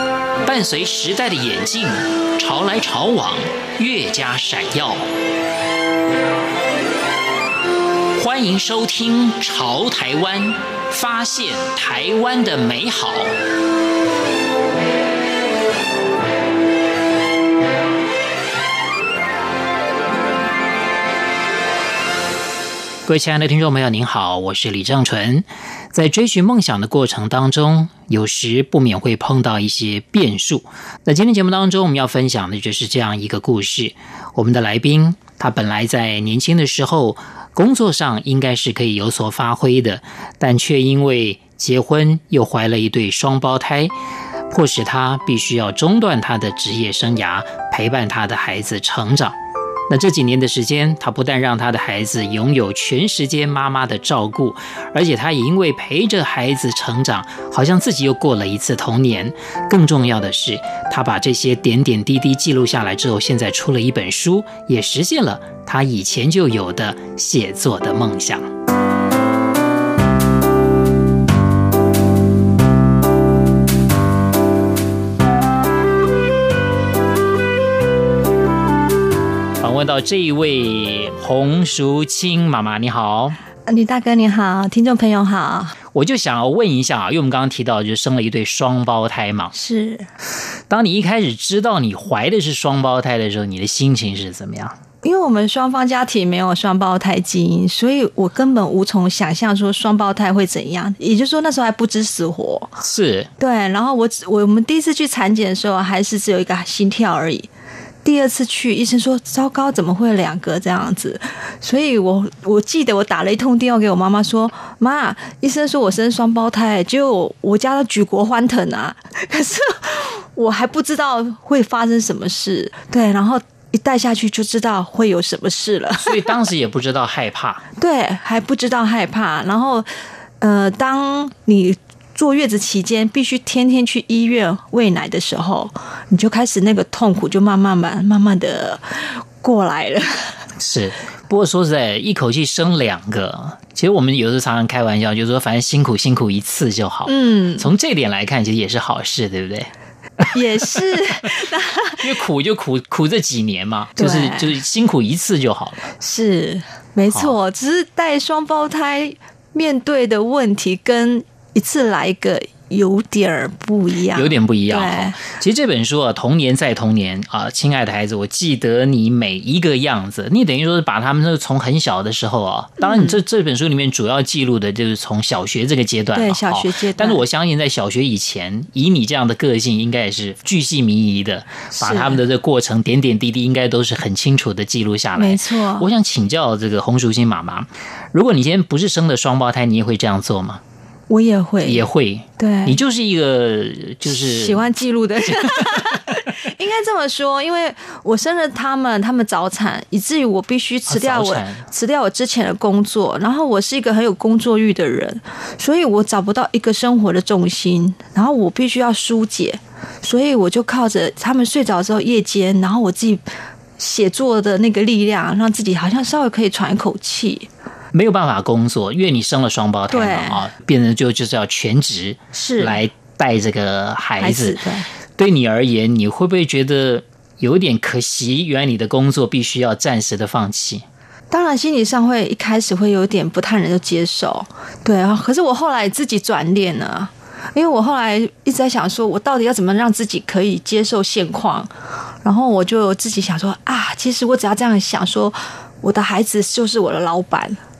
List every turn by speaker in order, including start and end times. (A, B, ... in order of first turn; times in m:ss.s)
0:00.4-0:05.1 A
0:08.2-0:13.3 A
0:23.1-0:43.9 A
0:44.5-0:49.4 A
0:49.9-1:08.4 A
1:19.6-1:23.4 A
1:23.7-1:25.8 B
1:25.9-1:29.5 A
1:29.5-1:30.1 B
1:30.7-1:34.7 A
1:35.0-1:42.7 B
1:42.8-1:43.3 A
1:43.4-1:47.5 B
1:48.0-2:06.4 B
2:06.0-2:07.6 A
2:07.8-2:09.9 B
2:10.4-2:20.4 B
2:20.6-2:29.7 A
2:27.1-2:27.7 B
2:30.3-2:32.2 B
2:32.0-2:35.9 A
2:34.0-2:34.6 B
2:36.0-2:45.2 B
2:44.1-3:10.6 A
2:52.8-2:53.2 B
2:56.1-2:57.2 B
3:01.7-3:02.2 B
3:05.1-3:05.9 B
3:11.1-3:11.8 B
3:11.6-3:14.6 A
3:12.4-3:12.8 B
3:14.0-3:33.2 B
3:20.9-3:21.6 A
3:33.8-3:37.5 B
3:37.9-3:44.6 A
3:39.9-3:40.4 B
3:42.3-3:42.8 B
3:44.2-3:44.9 B
3:45.2-3:50.8 A
3:51.3-4:01.7 B
4:02.2-4:07.6 B